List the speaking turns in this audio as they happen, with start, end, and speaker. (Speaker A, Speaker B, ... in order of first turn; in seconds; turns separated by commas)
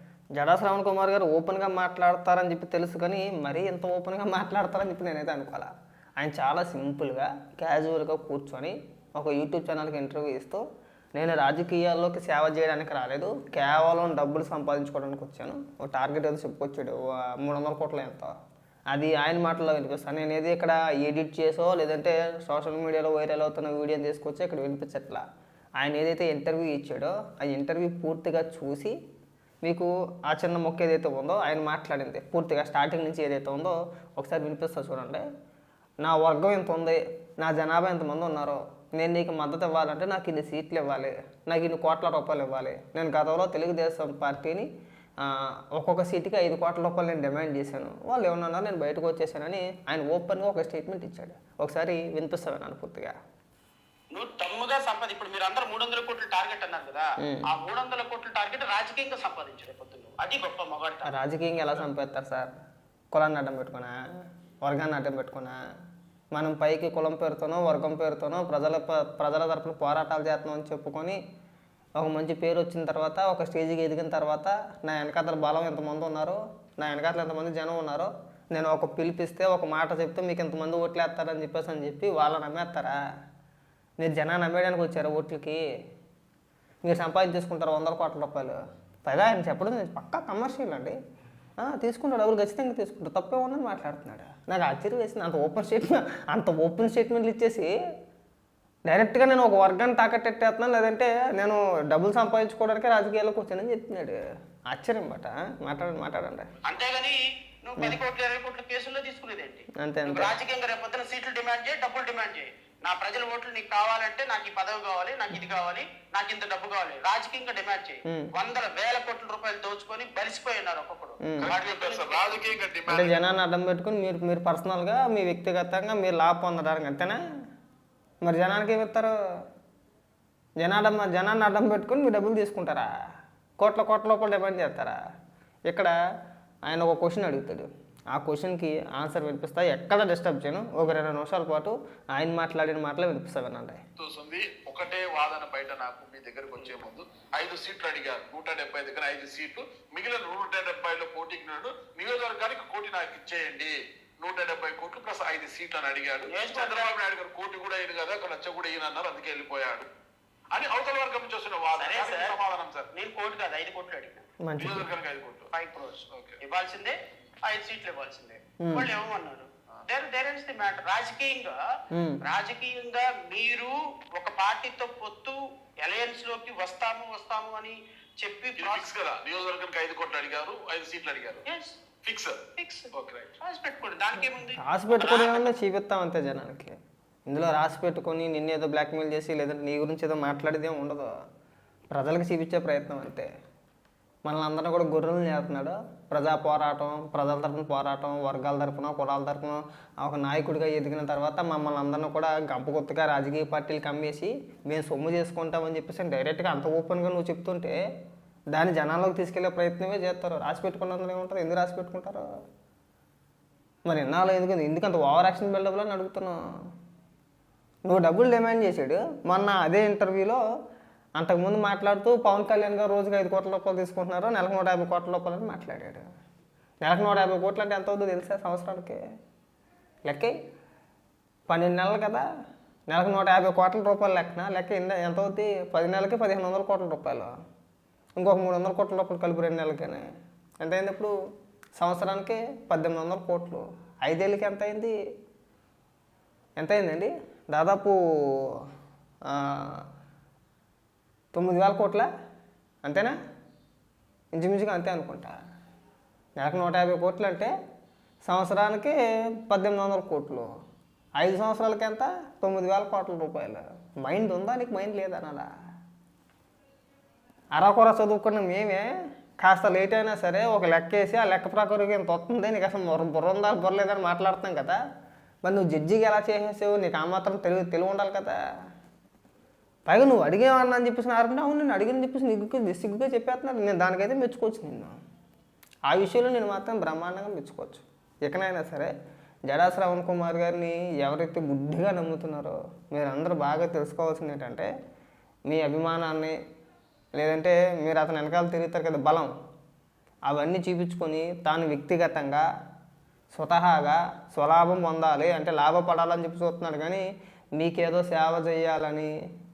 Speaker A: 0.3-10.6, Speaker A: 11.1-18.3, Speaker A: 18.9-25.2, Speaker A: 25.8-28.9, Speaker A: 29.6-35.2, Speaker A: 36.0-44.7, Speaker A: 45.2-53.1, Speaker B: 54.1-61.1, Speaker A: 57.2-57.5, Speaker A: 61.1-62.5, Speaker A: 63.1-64.0, Speaker A: 64.6-65.6, Speaker A: 66.3-71.2, Speaker A: 72.0-83.0, Speaker A: 84.0-85.6, Speaker A: 86.8-91.0, Speaker A: 91.6-97.7, Speaker A: 98.9-104.2, Speaker A: 104.7-106.6, Speaker B: 106.6-122.6, Speaker A: 109.8-110.3, Speaker C: 121.4-123.2, Speaker A: 122.9-127.2, Speaker A: 128.2-129.1, Speaker A: 130.6-132.9, Speaker A: 133.6-135.0, Speaker A: 135.7-135.9, Speaker A: 136.6-143.8, Speaker C: 144.0-159.8, Speaker B: 156.2-156.9, Speaker C: 160.5-162.9, Speaker B: 161.8-162.4, Speaker B: 162.9-164.2, Speaker A: 164.4-164.8, Speaker C: 164.6-165.5, Speaker B: 165.5-166.9, Speaker C: 166.1-166.4, Speaker B: 167.4-171.5, Speaker A: 168.6-168.9, Speaker A: 171.9-172.2, Speaker B: 172.2-178.9, Speaker C: 178.6-181.4, Speaker B: 181.4-181.8, Speaker C: 182.0-182.4, Speaker B: 182.6-182.9, Speaker C: 182.9-183.3, Speaker B: 183.4-185.5, Speaker A: 184.6-186.7, Speaker A: 187.3-191.1, Speaker A: 191.9-193.3, Speaker A: 194.2-207.8, Speaker A: 208.5-212.2, Speaker A: 213.9-216.4, Speaker A: 217.8-220.4, Speaker A: 221.2-226.0, Speaker A: 226.8-229.0, Speaker A: 230.1-230.3, Speaker A: 231.5-232.2, Speaker A: 232.9-237.3, Speaker A: 238.2-240.1, Speaker A: 240.6-241.1, Speaker A: 241.8-244.9, Speaker A: 246.6-248.5, Speaker A: 249.3-249.8, Speaker A: 251.3-252.1, Speaker A: 252.8-253.1, Speaker A: 254.3-255.3, Speaker A: 256.4-257.5, Speaker A: 258.2-260.5, Speaker A: 261.2-265.5, Speaker A: 267.5-274.8, Speaker A: 275.4-278.4, Speaker A: 279.9-284.9, Speaker A: 285.9-288.9, Speaker A: 289.5-294.7, Speaker A: 295.5-296.4, Speaker A: 297.1-299.3, Speaker A: 300.3-302.4, Speaker A: 303.3-307.0, Speaker A: 307.6-309.1